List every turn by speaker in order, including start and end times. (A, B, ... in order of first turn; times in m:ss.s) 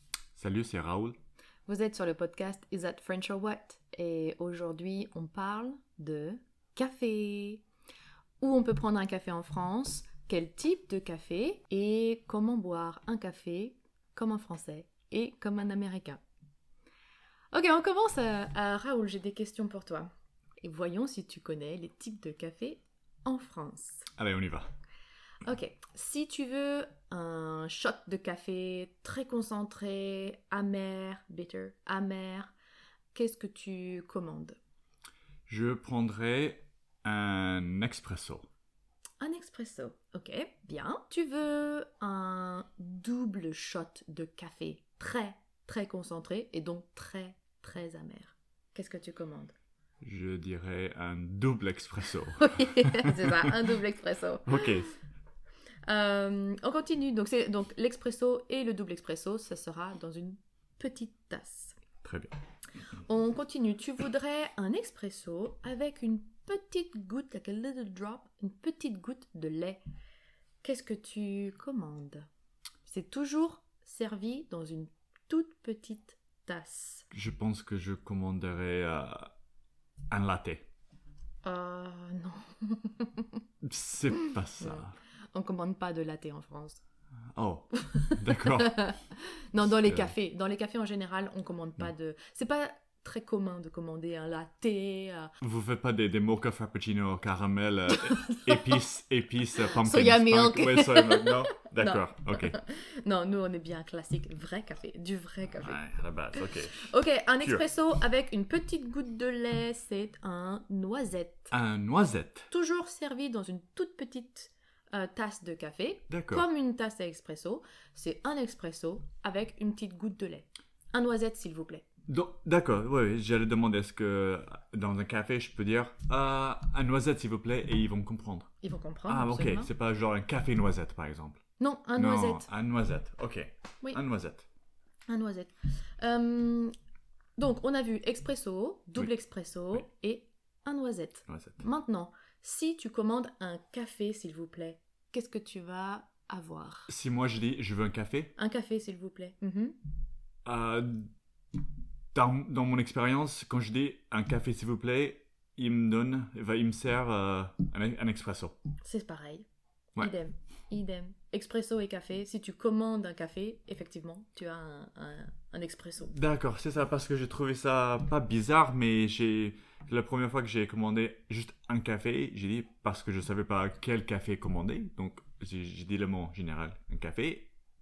0:00.4-0:01.2 A
0:01.7-0:07.6 B
0:08.4-0:16.2 B
0:17.5-0:20.1 B
0:20.6-0:24.1 B
0:24.2-0:24.7 A
0:25.4-0:32.5 B
0:33.1-0:34.6 B
0:35.5-0:38.5 A
0:39.2-0:49.5 B
0:50.0-0:53.6 A
0:52.4-0:54.9 B
0:54.5-0:54.9 A
0:55.9-1:01.8 B
1:02.0-1:02.3 A
1:03.0-1:09.8 B
1:10.6-1:12.3 B
1:12.9-1:17.1 B
1:17.1-1:19.3 A
1:20.1-1:20.7 A
1:21.4-1:23.4 B
1:23.6-1:24.9 A
1:24.6-1:26.8 B
1:27.4-1:28.9 A
1:27.8-1:35.4 B
1:29.7-1:30.1 A
1:35.4-1:42.6 A
1:37.9-1:38.8 B
1:39.6-1:45.8 B
1:45.6-1:47.6 A
1:46.4-1:51.5 B
1:51.5-1:52.5 A
1:52.5-2:01.8 B
1:56.1-1:56.5 A
2:02.1-2:08.5 A
2:08.6-2:09.7 B
2:09.1-2:11.4 A
2:11.6-2:12.5 B
2:12.0-2:14.5 A
2:15.1-2:16.7 B
2:17.4-2:26.9 B
2:21.3-2:21.6 A
2:26.9-2:28.3 A
2:28.4-2:29.8 B
2:30.5-2:31.1 A
2:32.1-2:38.6 A
2:38.8-2:39.4 B
2:40.0-2:46.2 B
2:46.1-2:57.5 A